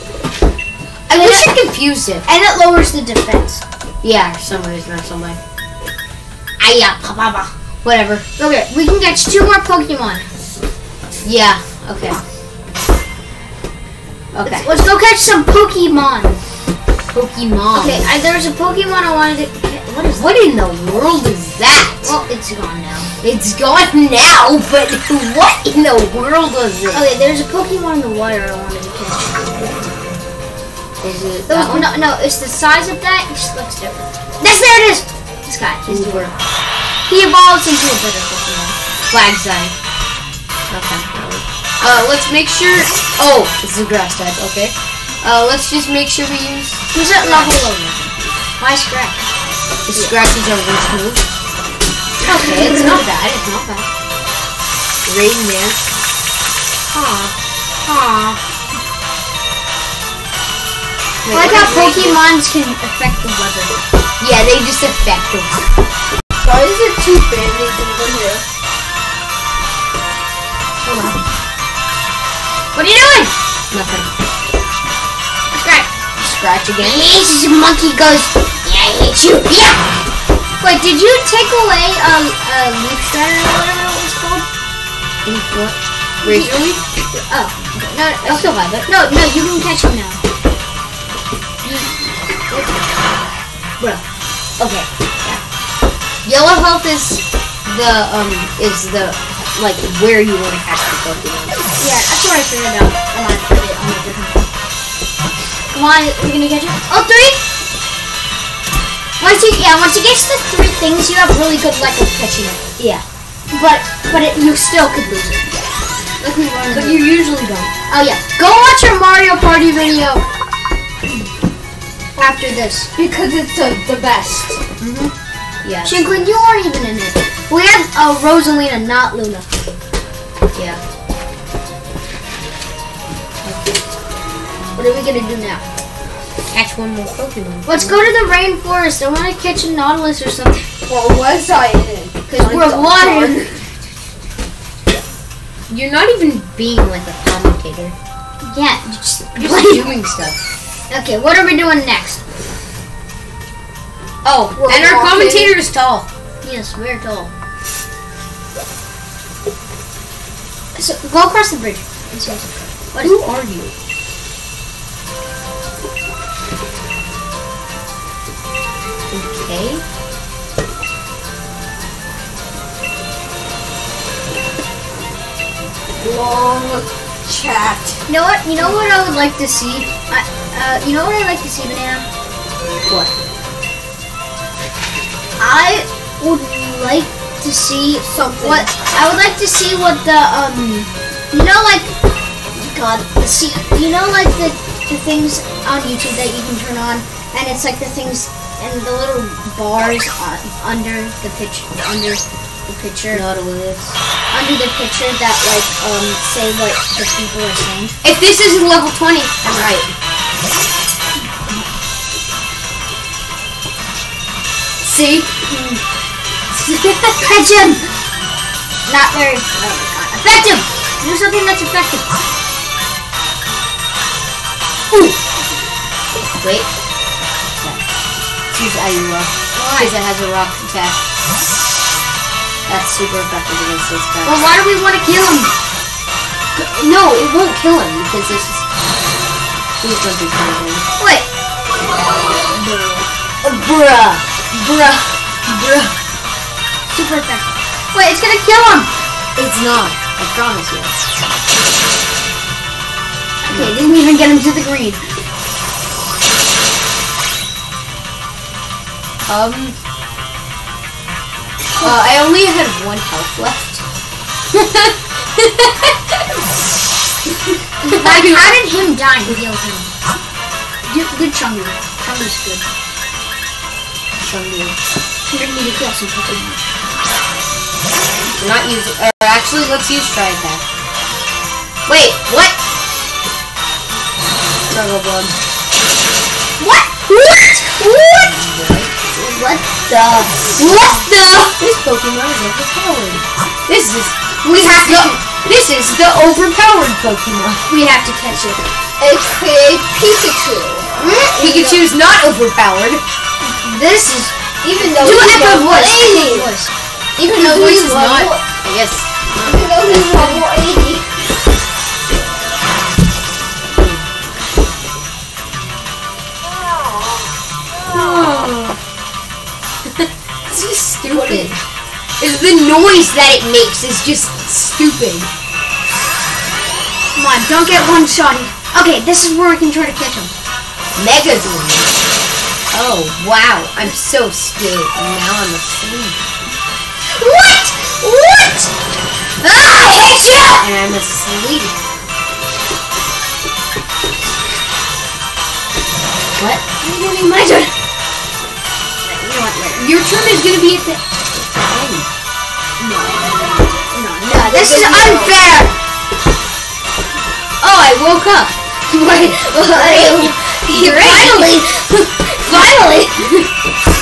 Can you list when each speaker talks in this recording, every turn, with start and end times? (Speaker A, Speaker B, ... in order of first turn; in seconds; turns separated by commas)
Speaker A: 1.1-2.2, Speaker B: 1.1-1.5, Speaker B: 2.2-3.6, Speaker A: 4.0-5.4, Speaker B: 6.6-7.5, Speaker A: 7.8-8.2, Speaker B: 8.4-10.3, Speaker A: 11.2-12.2, Speaker A: 14.3-14.8, Speaker B: 14.4-16.4, Speaker A: 17.1-18.1, Speaker B: 17.7-20.3, Speaker A: 20.1-22.1, Speaker B: 22.0-23.1, Speaker A: 23.2-27.1, Speaker B: 26.9-29.9, Speaker A: 31.0-31.9, Speaker B: 31.5-36.3, Speaker A: 35.9-36.3, Speaker B: 37.1-38.8, Speaker A: 39.1-39.7, Speaker A: 40.7-47.7, Speaker B: 46.9-49.2, Speaker A: 49.9-51.2, Speaker B: 52.2-53.0, Speaker A: 52.2-53.9, Speaker A: 55.0-55.9, Speaker B: 56.9-57.3, Speaker B: 57.8-58.4, Speaker A: 61.2-62.2, Speaker B: 61.3-63.8, Speaker A: 64.2-65.6, Speaker C: 66.4-68.4, Speaker B: 70.8-71.2, Speaker B: 72.7-73.3, Speaker A: 73.7-74.1, Speaker B: 75.5-75.9, Speaker A: 76.2-77.2, Speaker B: 76.8-79.8, Speaker B: 80.6-84.5, Speaker A: 85.2-86.8, Speaker B: 86.2-86.6, Speaker B: 87.1-90.2, Speaker A: 88.2-88.9, Speaker B: 91.6-92.8, Speaker A: 94.6-95.4, Speaker A: 96.2-101.6, Speaker B: 101.8-104.5, Speaker B: 105.7-107.4, Speaker B: 109.2-112.6, Speaker A: 112.8-113.0, Speaker B: 113.5-115.6, Speaker B: 116.2-117.0, Speaker A: 116.7-117.7, Speaker B: 117.9-120.2, Speaker B: 122.2-122.9, Speaker C: 123.0-124.6, Speaker A: 124.8-126.4, Speaker B: 125.8-129.5, Speaker A: 130.5-130.8, Speaker A: 133.4-133.8, Speaker B: 134.8-135.6, Speaker A: 136.5-138.1, Speaker B: 137.7-140.7, Speaker C: 140.9-143.6, Speaker B: 142.3-143.5, Speaker A: 145.7-147.9, Speaker B: 148.4-149.9, Speaker A: 149.3-150.4, Speaker B: 150.9-152.2, Speaker A: 154.2-156.1, Speaker C: 154.6-155.5, Speaker B: 156.4-157.3, Speaker B: 160.7-163.2, Speaker A: 163.0-163.7, Speaker A: 169.1-169.8, Speaker C: 176.0-178.0, Speaker B: 178.1-182.1, Speaker A: 182.8-183.1, Speaker B: 185.4-191.9, Speaker C: 188.0-188.7, Speaker B: 192.5-203.2, Speaker A: 203.1-204.0, Speaker B: 204.3-207.9, Speaker A: 208.0-209.9, Speaker A: 214.8-215.8, Speaker A: 216.5-217.3, Speaker B: 217.2-217.8, Speaker B: 218.9-222.1, Speaker A: 224.9-225.2, Speaker A: 226.4-226.7, Speaker A: 227.6-227.8, Speaker A: 228.5-231.1, Speaker B: 229.5-229.9, Speaker A: 232.7-234.4, Speaker B: 234.2-235.5, Speaker A: 236.5-238.7, Speaker A: 239.8-240.8, Speaker B: 241.0-241.2, Speaker B: 242.5-243.1, Speaker A: 243.4-245.9, Speaker B: 246.9-248.9, Speaker A: 249.3-251.1, Speaker B: 253.4-255.0, Speaker A: 253.5-253.7, Speaker A: 259.2-259.8, Speaker A: 261.8-263.8, Speaker A: 264.5-265.9, Speaker B: 267.8-269.9, Speaker A: 267.8-268.6, Speaker B: 270.9-272.6, Speaker A: 274.2-274.8, Speaker B: 275.3-276.6, Speaker A: 278.3-280.6, Speaker A: 281.9-282.6, Speaker A: 284.7-285.4, Speaker B: 286.6-286.9, Speaker A: 287.1-288.9, Speaker B: 289.1-289.9, Speaker A: 289.9-297.6, Speaker B: 290.4-291.1, Speaker B: 294.4-295.2, Speaker B: 297.7-298.7, Speaker C: 299.0-300.9, Speaker B: 301.0-301.7, Speaker A: 301.4-303.0, Speaker C: 301.4-301.8, Speaker A: 303.7-304.1, Speaker C: 304.6-306.5, Speaker A: 304.8-306.4, Speaker B: 304.8-306.7, Speaker A: 307.2-309.9, Speaker B: 307.4-308.3, Speaker C: 307.5-308.3, Speaker C: 309.4-311.1, Speaker B: 309.9-310.4, Speaker A: 313.8-314.1, Speaker A: 317.9-318.8, Speaker A: 319.8-321.6, Speaker C: 321.1-321.5, Speaker A: 322.2-325.3, Speaker B: 327.1-330.3, Speaker A: 330.9-331.9, Speaker A: 332.7-336.2, Speaker B: 337.0-338.7, Speaker B: 339.4-340.7, Speaker A: 340.6-341.7, Speaker A: 346.4-346.6, Speaker B: 346.8-347.7, Speaker B: 349.0-349.9, Speaker A: 349.8-351.0, Speaker A: 351.6-352.1, Speaker B: 352.8-355.6, Speaker C: 354.3-355.5, Speaker A: 357.6-358.5, Speaker B: 358.9-363.4, Speaker A: 359.2-361.6, Speaker A: 362.5-362.9